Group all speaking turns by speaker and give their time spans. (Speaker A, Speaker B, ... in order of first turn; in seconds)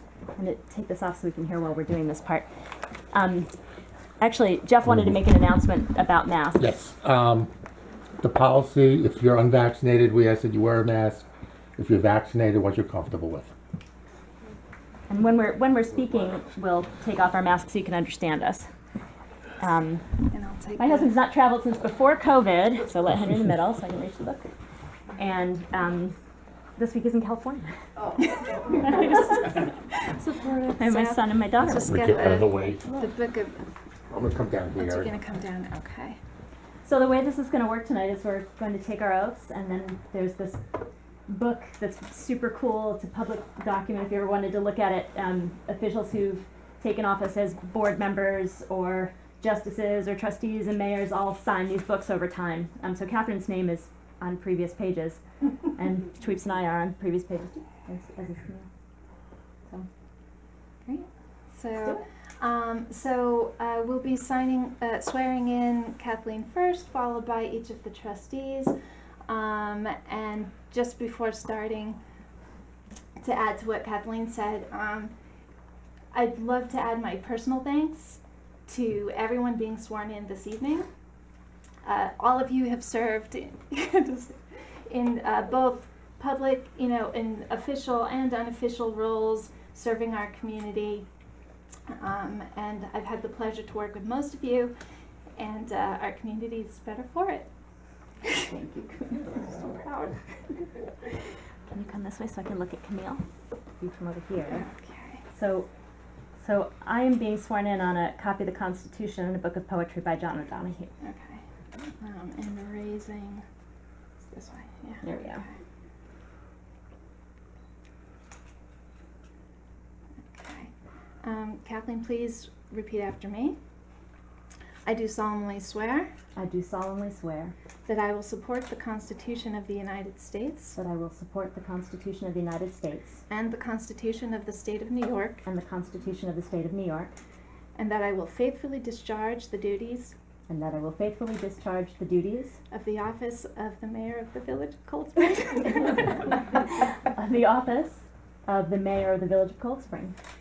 Speaker A: 0.3-2.5, 3.1-3.5, 4.2-6.7, 15.1-18.7, 19.6-20.1, 20.8-24.5, 25.2-26.2, 26.8-27.7, 28.7-29.7, 30.8-32.0, 36.8-40.6, 41.3-55.2, 55.8-58.7, 98.3-100.1, 101.7-103.2, 103.8-104.7, 105.3-105.7, 106.4-110.9, 115.0-115.4, 126.3-127.5, 130.8-133.2, 135.4-137.2, 140.5-142.6, 147.1-150.2
Speaker B: 6.6-7.5, 8.2-11.3, 11.8-13.5, 31.9-32.8, 34.1-35.1
Speaker C: 20.3-21.1, 30.2-33.6, 34.8-36.2, 60.9-68.8, 69.3-72.0, 73.2-75.1, 76.1-80.9, 81.8-84.4, 84.9-91.1, 91.9-94.8, 95.4-97.5, 104.5-105.2, 111.0-111.4, 112.0-113.4, 114.2-115.5, 120.3-120.7, 121.2-123.6, 124.9-126.1, 127.9-130.8, 133.3-135.4, 137.8-140.2, 142.7-146.3